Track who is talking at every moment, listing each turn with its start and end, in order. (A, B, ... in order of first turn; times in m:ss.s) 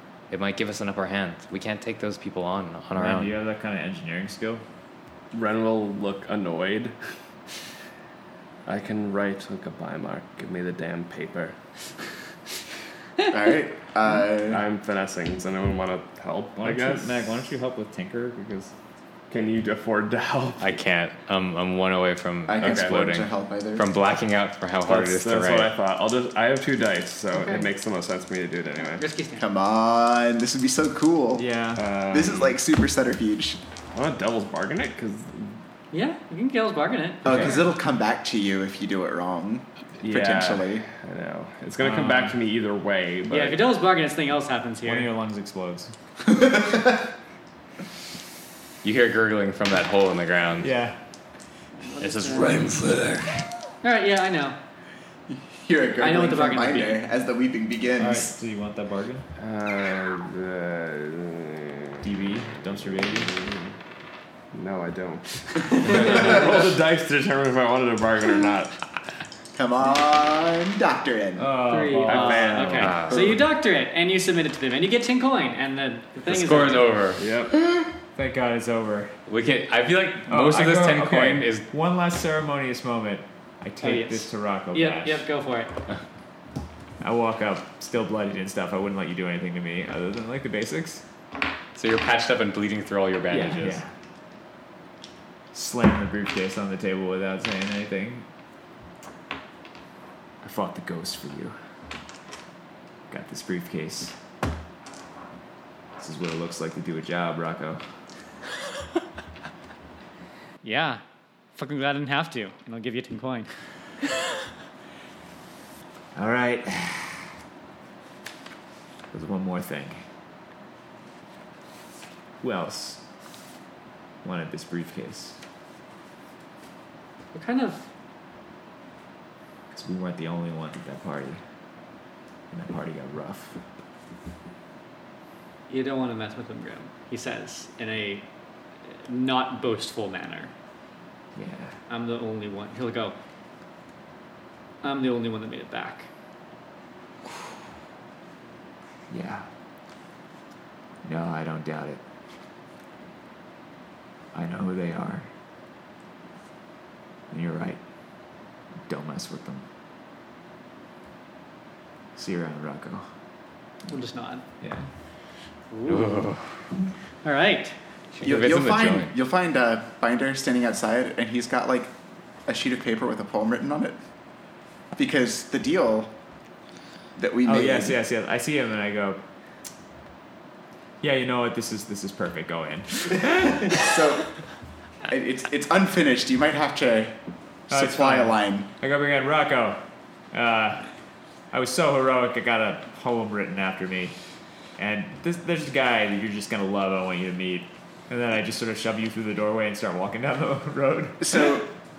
0:00.3-0:03.3 A
0:02.9-0:04.6 B
0:05.3-0:07.0 C
0:08.7-0:11.6 C
0:13.3-0:14.6 D
0:14.5-0:17.4 C
0:16.6-0:18.7 B
0:19.3-0:20.7 C
0:20.6-0:25.7 A
0:22.5-0:23.9 D
0:22.6-0:23.0 C
0:24.8-0:29.1 C
0:27.3-0:27.7 E
0:29.0-0:29.5 E
0:29.4-0:31.5 D
0:31.4-0:31.9 B
0:31.8-0:32.6 C
0:32.1-0:33.6 D
0:33.9-0:35.6 C
0:35.9-0:37.6 E
0:37.2-0:40.8 D
0:40.0-0:43.6 C
0:41.8-0:42.4 B
0:43.3-0:45.1 E
0:44.8-0:45.9 B
0:46.3-0:47.1 D
0:48.8-0:50.7 A
0:50.6-0:51.0 B
0:51.8-0:52.8 E
0:52.0-0:53.4 A
0:53.8-0:54.6 E
0:55.3-0:58.3 D
0:56.0-0:57.0 E
0:58.0-0:59.3 B
0:59.4-1:02.1 C
1:02.0-1:03.3 B
1:03.0-1:03.7 C
1:04.5-1:08.8 C
1:09.5-1:11.5 D
1:11.4-1:13.2 B
1:11.7-1:16.9 E
1:12.0-1:13.0 C
1:12.8-1:13.4 A
1:16.3-1:17.2 A
1:17.2-1:17.6 C
1:18.1-1:19.2 B
1:19.3-1:21.7 A
1:20.3-1:25.2 B
1:23.8-1:25.8 E
1:27.0-1:31.0 B
1:31.8-1:33.8 A
1:33.3-1:33.9 B
1:35.5-1:38.3 B
1:40.4-1:41.6 B
1:43.1-1:44.2 B
1:46.0-1:47.8 B
1:50.6-1:51.0 E
1:51.6-1:53.5 E
1:56.2-1:57.2 B
1:59.1-2:00.0 B
2:02.4-2:03.0 B
2:04.2-2:05.4 B
2:07.3-2:07.9 E
2:09.7-2:11.4 B
2:12.5-2:13.6 B
2:15.7-2:18.2 E
2:18.9-2:20.5 E
2:21.4-2:21.8 B
2:21.9-2:23.2 E
2:24.8-2:26.1 E
2:29.1-2:29.5 B
2:31.0-2:32.0 B
2:34.3-2:35.3 B
2:37.3-2:37.8 B
2:38.9-2:39.6 B
2:42.2-2:43.1 B
2:43.9-2:44.4 E
2:44.6-2:44.9 B
2:45.7-2:46.3 E
2:45.9-2:46.5 A
2:47.2-2:47.8 E
2:48.1-2:49.1 A
2:48.2-2:51.9 D
2:52.5-2:54.0 D
2:55.0-2:56.1 D
2:57.2-2:58.0 D
2:57.4-2:59.2 B
3:01.0-3:03.8 B
3:03.4-3:04.3 D
3:05.1-3:07.2 D
3:07.7-3:08.7 D
3:07.7-3:09.8 B
3:10.3-3:10.9 B
3:11.5-3:14.2 B
3:14.8-3:21.5 B
3:21.2-3:21.7 D